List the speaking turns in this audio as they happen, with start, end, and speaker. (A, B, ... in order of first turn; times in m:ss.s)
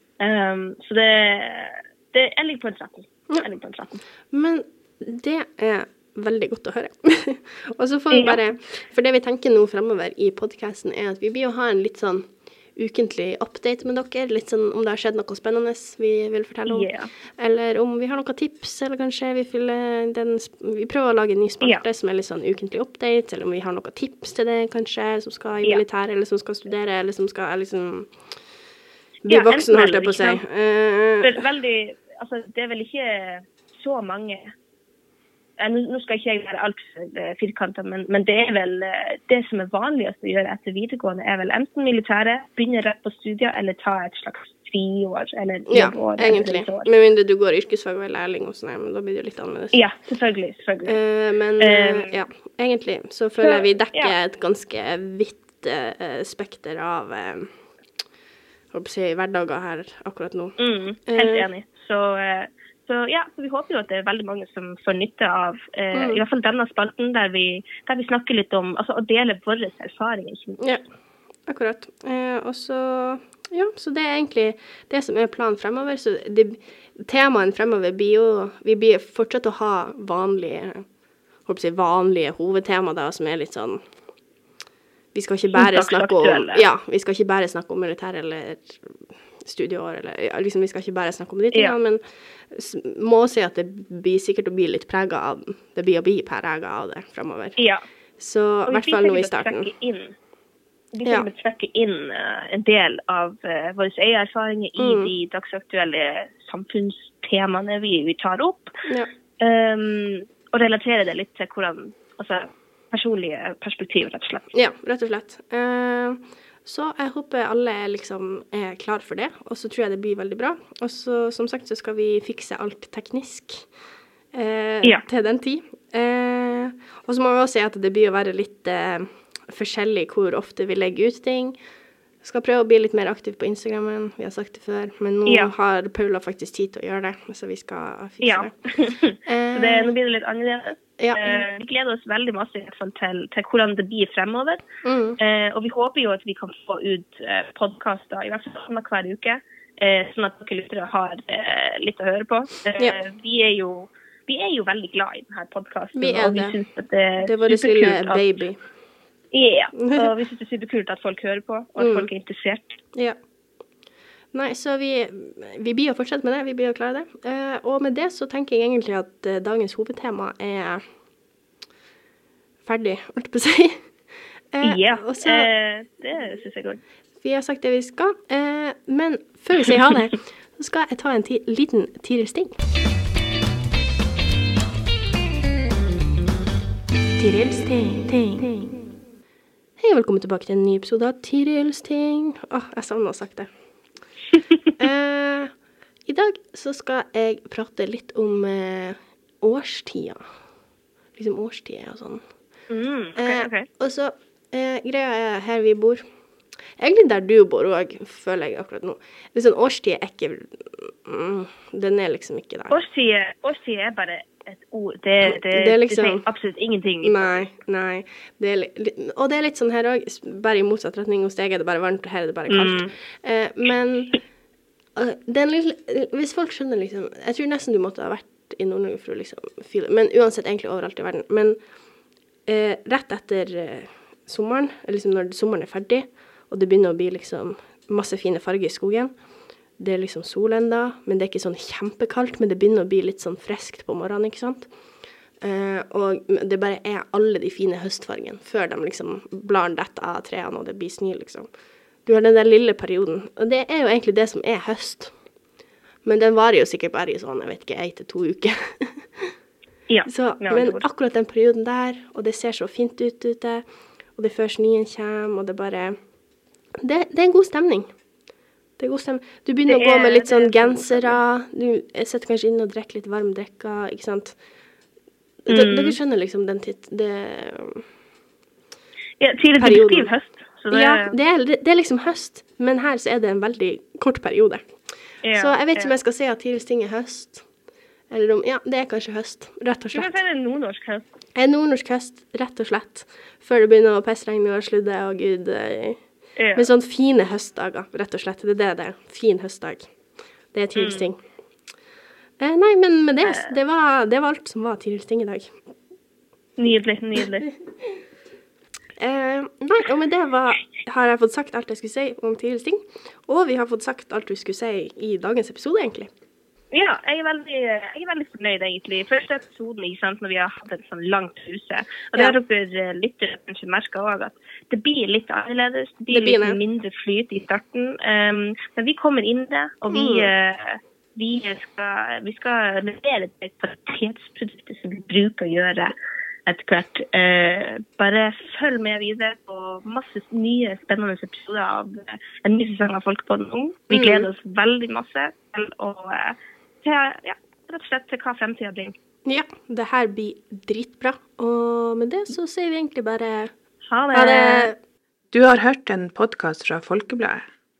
0:00.2-0:04.0 A
0:04.3-0:28.1 B
0:08.1-0:08.4 A
0:16.7-0:17.1 A
0:29.2-0:31.4 B
0:29.3-0:30.4 A
0:31.2-0:34.5 A
0:35.6-0:46.9 A
0:45.7-0:49.8 B
0:49.7-0:51.0 A
0:50.8-0:57.5 B
0:51.6-0:52.1 A
0:53.4-0:54.1 A
0:58.7-1:01.5 B
1:00.6-1:10.6 A
1:05.9-1:06.2 B
1:11.5-1:20.8 B
1:21.4-1:23.8 B
1:25.1-1:37.6 B
1:25.5-1:26.6 A
1:37.6-1:37.8 A
1:38.2-1:39.7 B
1:38.7-1:40.1 A
1:40.9-1:48.8 A
1:44.8-1:45.1 B
1:49.4-1:54.5 A
1:54.5-2:03.7 B
2:04.3-2:11.6 B
2:12.2-2:18.5 B
2:15.2-2:15.5 A
2:18.2-2:24.6 A
2:19.2-2:19.9 B
2:21.0-2:21.4 B
2:24.8-2:25.2 B
2:25.2-2:38.2 A
2:35.9-2:36.6 B
2:37.2-2:38.6 B
2:39.3-2:42.8 A
2:39.8-2:40.1 B
2:41.8-2:42.1 B
2:44.3-2:50.8 B
2:52.6-2:53.9 B
2:54.5-2:55.5 B
2:54.6-2:56.8 A
2:57.2-3:02.5 B
3:07.2-3:08.8 B
3:09.8-3:13.5 B
3:14.8-3:15.5 B
3:16.0-3:20.2 B
3:21.2-3:22.2 B
3:22.7-3:23.7 A
3:23.2-3:26.0 B
3:26.8-3:32.7 B
3:32.7-3:37.4 A
3:35.3-3:36.2 B
3:37.0-3:44.2 B
3:42.5-3:42.9 A
3:44.9-3:51.6 B
3:52.4-3:59.1 B
3:59.8-4:04.7 B
4:05.4-4:11.5 B
4:12.0-4:15.1 B
4:16.0-4:19.3 B
4:19.9-4:20.8 A
4:20.1-4:23.6 B
4:24.2-4:26.0 B
4:26.8-4:27.9 B
4:28.8-4:34.4 B
4:29.7-4:31.2 A
4:35.4-4:37.8 B
4:35.5-4:36.0 A
4:39.2-4:41.2 A
4:39.6-4:40.1 B
4:40.7-4:44.7 B
4:45.2-4:45.9 A
4:45.3-4:47.4 B
4:48.1-4:50.1 B
4:49.9-4:51.0 A
4:51.4-4:56.0 B
4:56.4-4:56.7 A
4:56.5-4:59.9 B
5:00.5-5:01.2 B
5:00.8-5:01.1 A
5:02.4-5:05.6 B
5:06.6-5:07.5 A
5:09.0-5:16.1 B
5:16.7-5:35.9 A
5:26.1-5:26.6 B
5:29.9-5:30.3 B
5:36.5-5:48.9 A
5:43.9-5:44.3 B
5:49.2-5:53.5 B
5:53.9-5:54.7 A
5:54.1-5:54.8 B
5:55.3-5:57.5 C